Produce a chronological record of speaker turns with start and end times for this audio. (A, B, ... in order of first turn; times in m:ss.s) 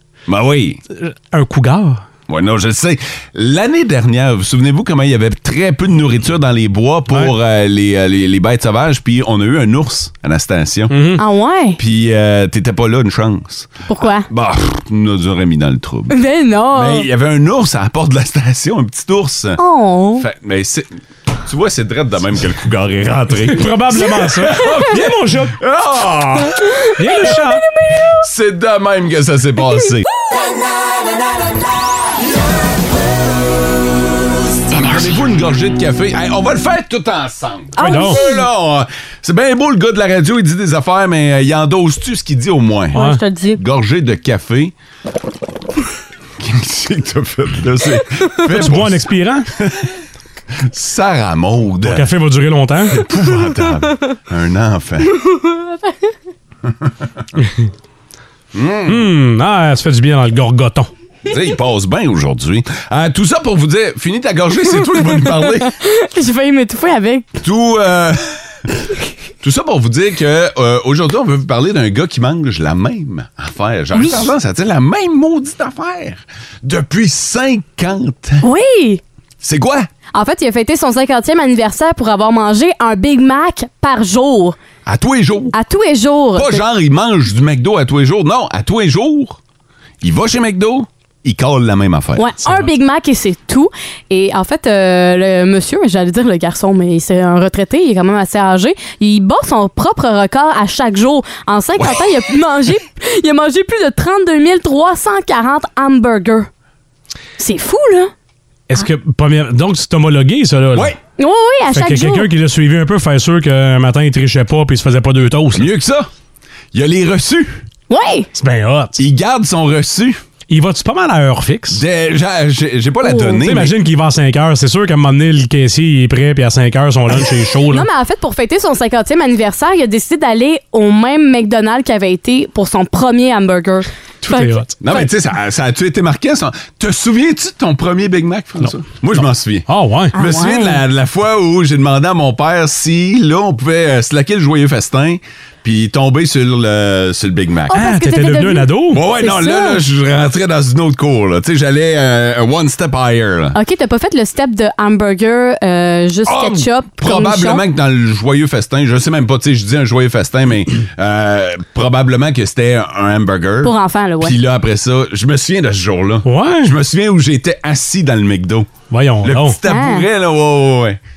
0:00.3-0:00.8 A
0:01.0-0:02.0 B
0:02.3-0:11.0 A
0:10.9-0:11.2 B
0:11.2-0:11.8 C
0:11.8-0:13.7 A
0:13.9-0:14.3 C
0:14.3-0:16.2 A
0:16.1-0:17.1 C
0:16.7-0:19.6 A
0:19.6-0:20.2 C
0:20.2-0:20.9 A
0:21.4-0:26.6 A
0:23.4-0:25.6 B
0:27.0-0:27.6 B
0:27.3-0:27.8 C
0:28.2-0:30.0 A
0:34.8-0:43.0 A
0:37.8-0:38.4 C
0:37.8-0:38.2 B
0:42.9-0:43.6 C
0:42.9-0:43.2 B
0:43.5-0:44.7 A
0:46.4-0:50.0 A
0:48.5-0:49.5 B
0:50.6-0:52.1 A
0:51.8-0:53.0 B
0:52.9-0:55.2 A
0:55.3-0:55.7 C
0:57.4-0:57.6 B
0:58.5-0:59.1 A
0:58.9-1:00.9 B
1:01.2-1:05.7 A
1:05.1-1:07.3 C
1:07.4-1:08.6 A
1:09.4-1:18.4 A
1:13.9-1:14.3 C
1:18.4-1:19.0 C
1:19.4-1:19.9 A
1:20.1-1:24.6 C
1:24.8-1:25.5 A
1:25.5-1:26.6 C
1:26.3-1:29.4 A
1:30.0-1:32.4 A
1:32.2-1:46.5 C
1:41.8-1:42.1 A
1:47.4-1:48.1 C
1:48.7-1:50.9 B
1:51.2-1:52.3 C
1:51.7-1:55.7 B
1:55.5-1:56.1 A
1:56.7-1:57.6 A
1:57.9-1:58.3 C
1:58.4-1:59.0 B
1:59.0-2:00.2 A
2:00.5-2:01.8 B
2:01.7-2:03.8 A
2:03.0-2:03.4 C
2:03.3-2:07.9 B
2:07.7-2:15.0 C
2:14.2-2:14.8 B
2:14.8-2:27.8 A
2:18.6-2:20.1 B
2:20.1-2:20.8 C
2:27.7-2:29.8 C
2:27.7-2:29.0 B
2:28.9-2:33.6 A
2:33.5-2:37.6 C
2:36.2-2:51.0 A
2:43.6-2:44.4 C
2:46.2-2:46.7 B
2:48.9-2:49.6 B
2:49.6-2:50.1 C